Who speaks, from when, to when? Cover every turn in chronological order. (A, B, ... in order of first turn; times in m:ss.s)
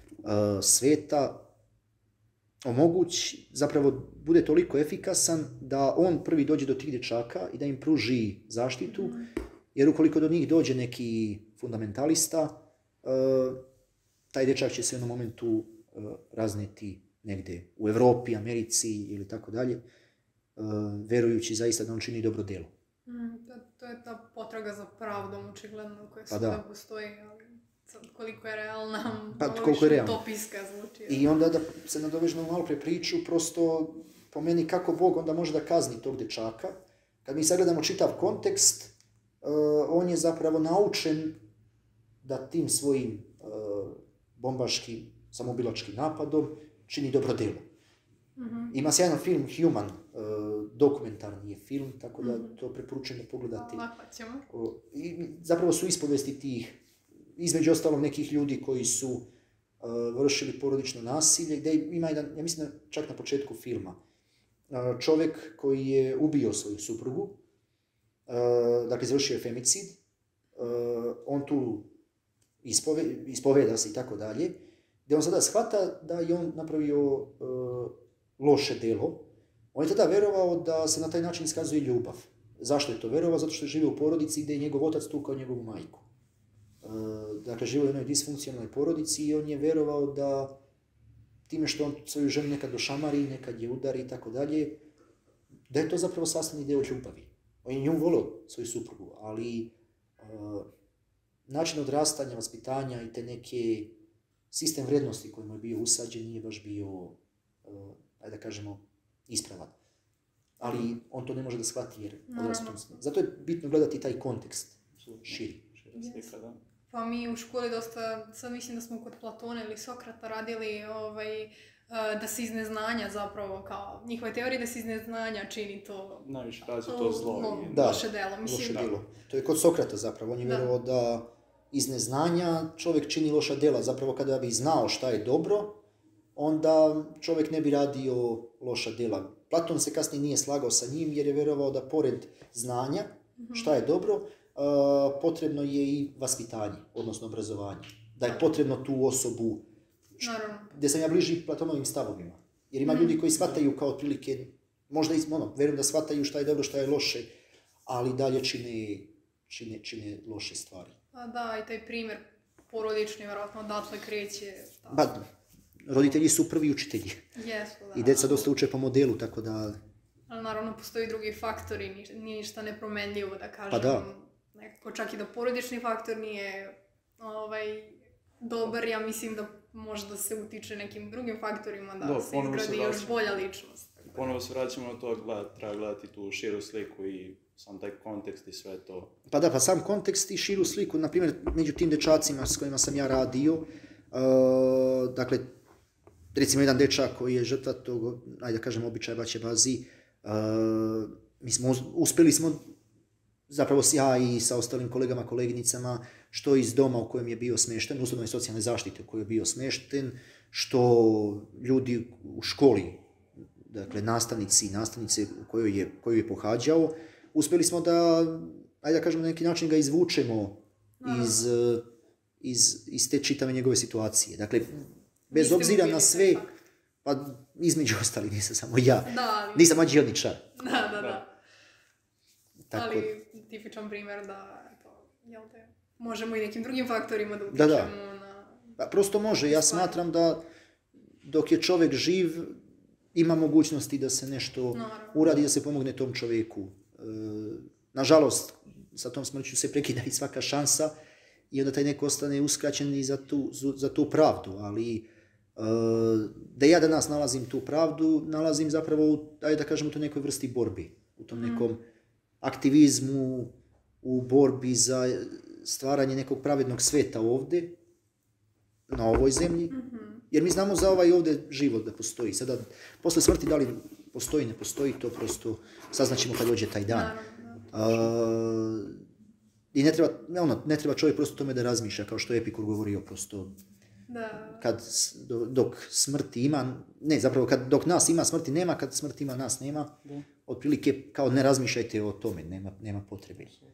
0:00.2-0:01.5 A
0:02.6-0:09.2 A
0:09.7-0:13.6 A
0:14.3-0:19.8 A
0:20.6-0:22.7 A
0:23.0-0:31.3 B
0:26.3-0:26.6 A
0:29.4-0:30.2 A
0:31.1-0:41.4 A
0:42.2-0:47.7 A
0:48.4-0:48.8 B
0:48.7-0:53.9 A
0:52.2-0:52.5 B
0:53.5-0:54.4 B
0:54.5-0:56.8 A
0:57.4-0:59.3 A
0:59.8-1:04.0 A
1:04.7-1:07.4 A
1:08.3-1:10.0 A
1:10.6-1:11.9 A
1:12.6-1:26.0 A
1:26.8-1:30.6 A
1:31.5-1:34.8 A
1:35.7-1:40.7 A
1:41.5-1:44.0 A
1:44.5-1:49.7 A
1:50.6-1:55.6 A
1:52.3-1:52.8 B
1:55.0-1:56.6 C
1:55.9-1:56.3 B
1:56.9-2:06.3 B
2:06.2-2:08.1 C
2:06.9-2:08.9 B
2:07.7-2:15.8 A
2:16.4-2:29.6 A
2:23.4-2:23.7 B
2:30.2-2:30.7 B
2:30.2-2:37.3 A
2:32.8-2:33.2 B
2:37.8-2:40.9 A
2:41.1-2:45.1 B
2:44.9-2:45.2 A
2:45.8-2:47.2 A
2:47.4-2:48.5 B
2:47.9-2:49.8 A
2:50.3-3:04.0 B
2:53.7-2:54.0 A
3:02.0-3:03.4 C
3:04.1-3:09.1 C
3:09.3-3:15.5 A
3:16.3-3:22.6 A
3:23.5-3:33.0 A
3:33.7-3:41.8 A
3:41.0-3:41.5 B
3:42.4-3:46.4 A
3:45.3-3:46.6 B
3:47.0-3:50.4 A
3:49.0-3:49.8 B
3:50.6-3:51.3 B
3:51.0-3:51.2 C
3:52.7-3:53.1 A
3:52.7-3:58.7 B
3:57.5-3:57.9 A
3:58.8-4:00.4 A
3:59.5-4:00.0 B
4:01.2-4:02.6 A
4:03.1-4:10.9 A
4:04.7-4:05.4 B
4:11.5-4:21.8 A
4:21.3-4:21.7 B
4:22.4-4:27.8 A
4:28.9-4:29.7 A
4:29.7-4:30.2 B
4:30.3-4:37.1 A
4:36.9-4:37.7 B
4:37.7-4:39.0 A
4:39.7-4:43.6 A
4:44.1-4:44.6 B
4:44.6-4:49.9 A
4:50.4-4:53.5 A